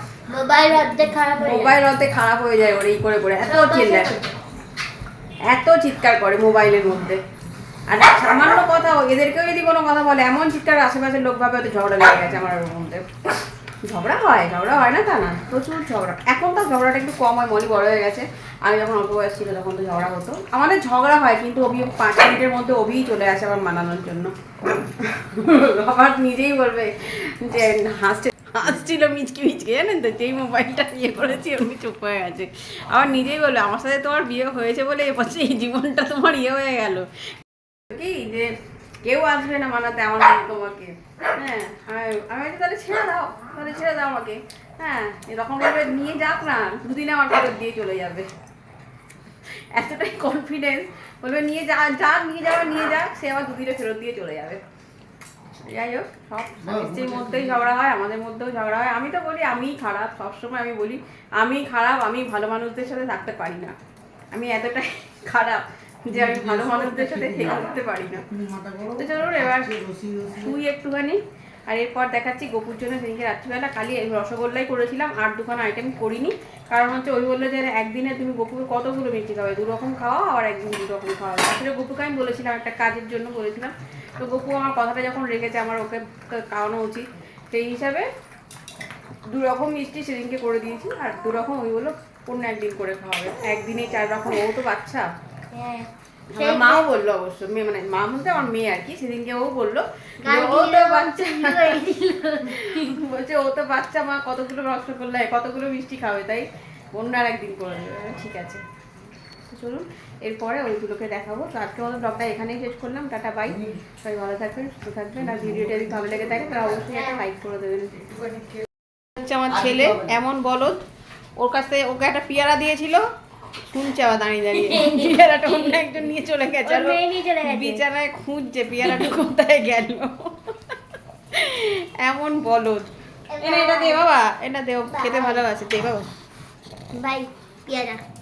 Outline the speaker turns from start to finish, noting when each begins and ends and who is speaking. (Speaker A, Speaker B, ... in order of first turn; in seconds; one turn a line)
Speaker A: 0.3-1.8
Speaker B: 1.4-4.1
Speaker A: 3.4-4.3
Speaker B: 5.5-7.2
Speaker B: 7.9-24.4
Speaker B: 25.0-37.3
Speaker B: 37.9-48.3
Speaker B: 49.7-54.6
Speaker B: 55.6-63.8
Speaker B: 64.3-68.3
Speaker B: 68.8-88.1
Speaker B: 89.3-95.1
Speaker A: 95.5-96.9
Speaker B: 96.3-101.8
Speaker A: 100.2-102.9
Speaker B: 102.4-108.6
Speaker B: 109.5-118.2
Speaker B: 119.2-120.8
Speaker B: 121.4-123.1
Speaker B: 123.7-130.6
Speaker A: 124.6-125.9
Speaker A: 126.6-127.8
Speaker B: 131.3-136.1
Speaker A: 133.3-134.0
Speaker A: 134.9-135.4
Speaker A: 136.9-138.0